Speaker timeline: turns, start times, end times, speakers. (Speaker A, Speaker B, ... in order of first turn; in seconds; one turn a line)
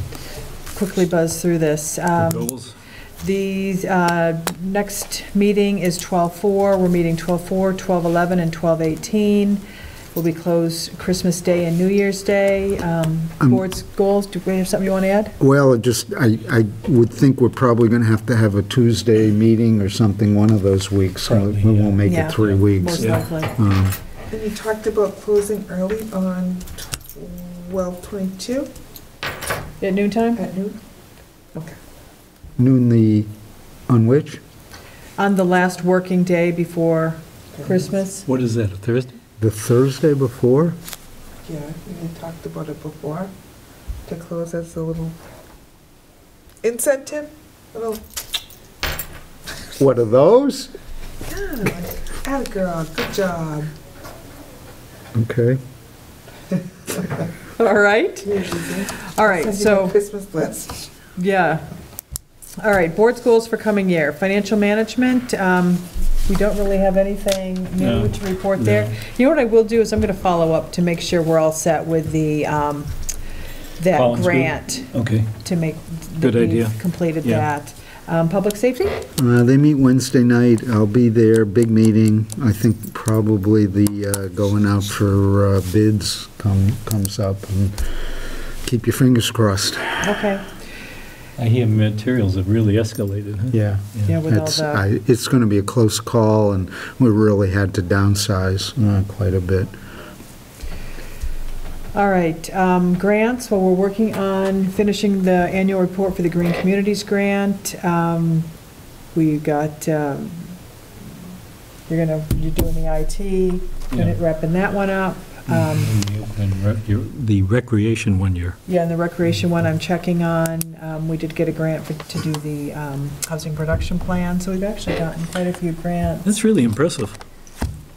Speaker A: 0.7-2.5
Speaker B: 2.2-2.8
Speaker A: 3.2-9.6
Speaker A: 10.1-15.3
Speaker C: 15.4-24.0
Speaker B: 21.3-23.2
Speaker A: 22.0-23.5
Speaker D: 24.3-28.7
Speaker A: 29.8-30.4
Speaker D: 30.4-30.8
Speaker C: 32.6-33.3
Speaker C: 33.9-34.4
Speaker A: 35.2-38.3
Speaker D: 37.5-37.9
Speaker B: 38.2-39.1
Speaker C: 39.4-40.8
Speaker D: 41.4-43.3
Speaker D: 44.0-45.2
Speaker D: 46.6-48.0
Speaker C: 49.8-50.7
Speaker D: 51.2-53.7
Speaker C: 55.1-55.6
Speaker A: 57.5-60.0
Speaker D: 58.2-60.9
Speaker A: 61.1-61.6
Speaker A: 62.6-72.9
Speaker B: 67.8-68.9
Speaker A: 73.8-79.1
Speaker B: 73.9-75.3
Speaker B: 76.2-77.5
Speaker C: 79.2-87.9
Speaker C: 88.6-90.1
Speaker A: 90.0-90.5
Speaker B: 91.4-94.1
Speaker C: 93.5-99.7
Speaker A: 94.1-94.8
Speaker A: 101.9-108.5
Speaker A: 109.1-110.5
Speaker A: 111.9-115.9
Speaker B: 115.5-118.6
Speaker A: 118.7-126.3
Speaker B: 126.2-127.2